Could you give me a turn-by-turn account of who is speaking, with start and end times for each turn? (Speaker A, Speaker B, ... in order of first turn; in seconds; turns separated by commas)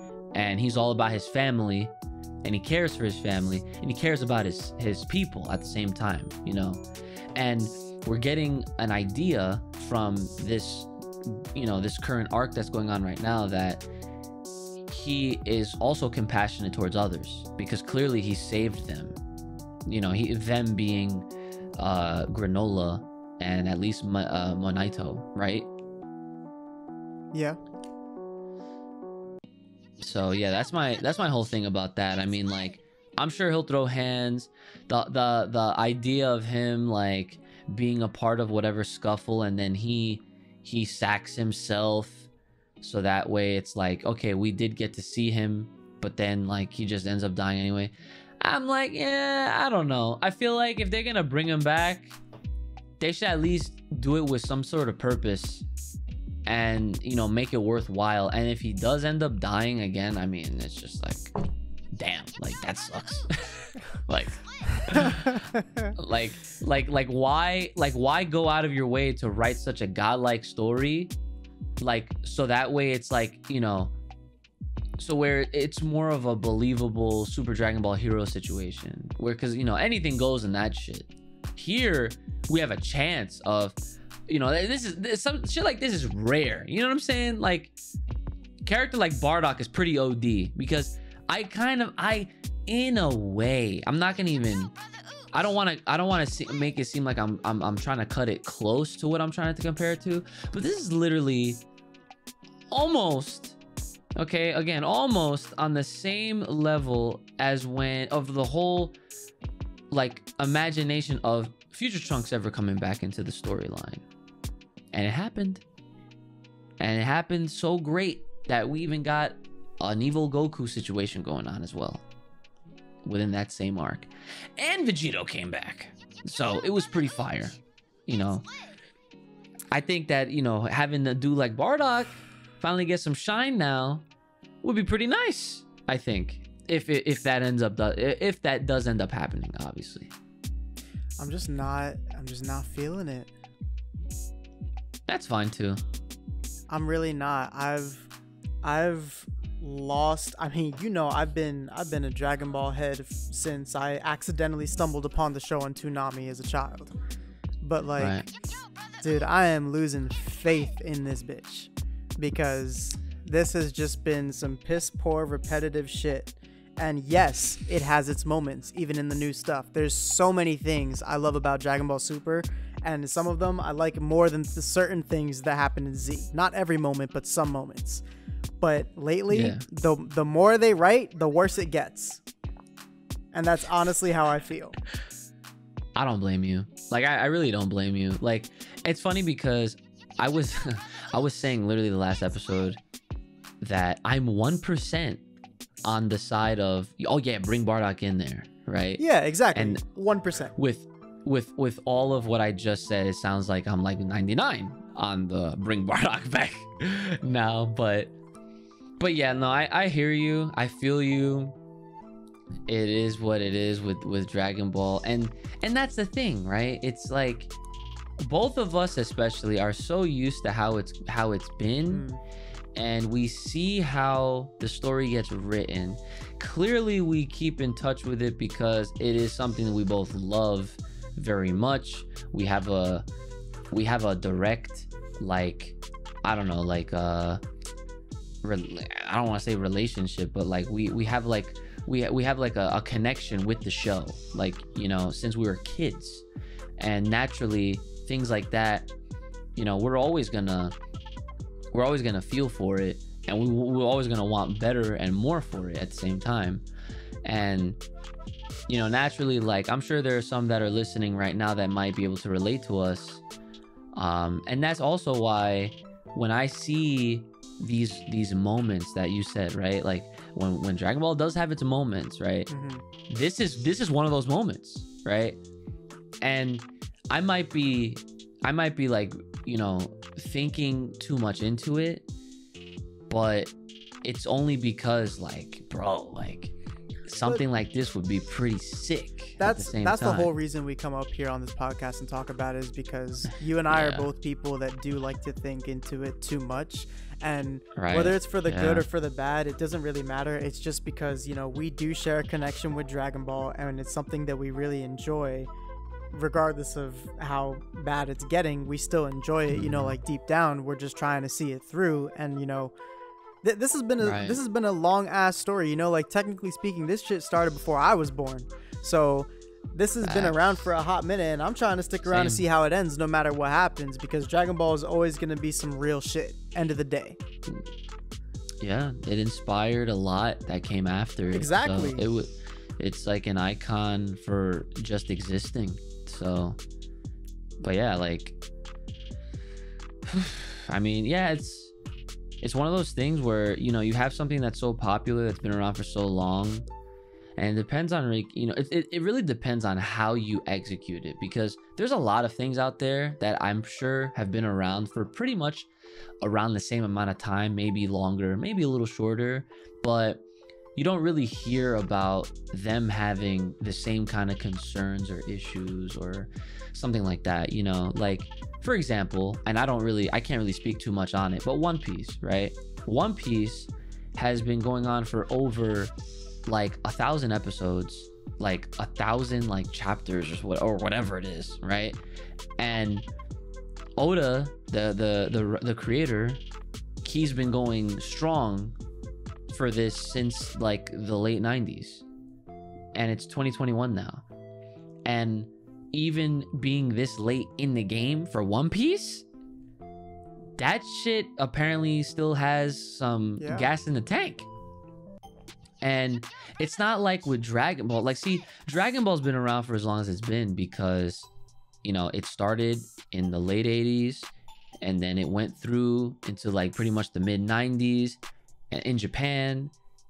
Speaker A: 0.3-1.9, Speaker A: 2.4-6.8, Speaker A: 7.3-13.8, Speaker A: 14.9-19.2, Speaker A: 19.9-25.7, Speaker B: 27.3-27.6, Speaker A: 30.0-42.3, Speaker A: 42.8-52.2, Speaker A: 53.0-55.6, Speaker A: 56.5-61.3, Speaker A: 62.0-71.1, Speaker B: 65.5-65.9, Speaker A: 71.8-73.9, Speaker A: 75.0-83.8, Speaker A: 84.3-87.7, Speaker A: 88.7-94.7, Speaker A: 95.3-101.6, Speaker A: 102.7-103.6, Speaker A: 104.2-109.0, Speaker A: 109.9-114.0, Speaker A: 114.9-115.6, Speaker A: 116.8-122.0, Speaker A: 123.0-128.4, Speaker A: 129.7-134.0, Speaker A: 134.6-140.1, Speaker B: 141.2-143.3, Speaker A: 145.1-145.8, Speaker B: 146.7-148.1, Speaker B: 148.6-156.9, Speaker B: 157.6-158.2, Speaker A: 158.0-158.3, Speaker B: 159.0-178.0, Speaker B: 178.6-182.2, Speaker A: 179.3-179.6, Speaker B: 183.3-184.8, Speaker A: 186.0-192.8, Speaker A: 193.6-195.2, Speaker A: 195.8-199.0, Speaker B: 199.0-200.6, Speaker A: 199.5-199.8, Speaker A: 200.6-208.1, Speaker A: 209.0-211.6, Speaker A: 212.7-217.5, Speaker A: 218.2-222.1, Speaker B: 221.9-222.2, Speaker A: 222.8-233.1, Speaker A: 233.7-237.4, Speaker A: 238.4-246.2, Speaker A: 246.8-248.9, Speaker A: 249.6-250.8, Speaker A: 251.7-256.6, Speaker A: 257.2-257.8, Speaker A: 258.7-263.2, Speaker A: 263.9-272.5, Speaker B: 272.5-272.8, Speaker A: 273.1-275.4, Speaker A: 276.2-282.1, Speaker A: 283.1-283.5, Speaker A: 284.0-286.5, Speaker A: 287.1-290.3, Speaker B: 289.4-305.5, Speaker A: 293.7-294.1, Speaker A: 297.8-298.9, Speaker B: 306.1-312.7, Speaker A: 309.5-310.0, Speaker B: 313.4-327.2, Speaker A: 314.0-314.4, Speaker A: 320.0-320.7, Speaker A: 322.1-322.4, Speaker A: 328.6-336.6, Speaker B: 331.3-332.1, Speaker A: 337.6-338.4, Speaker A: 340.1-341.7, Speaker A: 342.4-346.7, Speaker A: 347.4-355.7, Speaker A: 356.2-360.2, Speaker A: 360.8-375.9, Speaker A: 376.5-382.0, Speaker A: 382.6-383.1, Speaker A: 384.0-386.4, Speaker A: 387.0-388.8, Speaker A: 389.5-392.0, Speaker A: 392.9-394.2, Speaker A: 395.1-399.2, Speaker A: 400.6-404.5, Speaker B: 403.4-403.7, Speaker A: 405.8-411.3, Speaker A: 411.8-414.3, Speaker A: 414.8-418.2, Speaker A: 418.7-419.7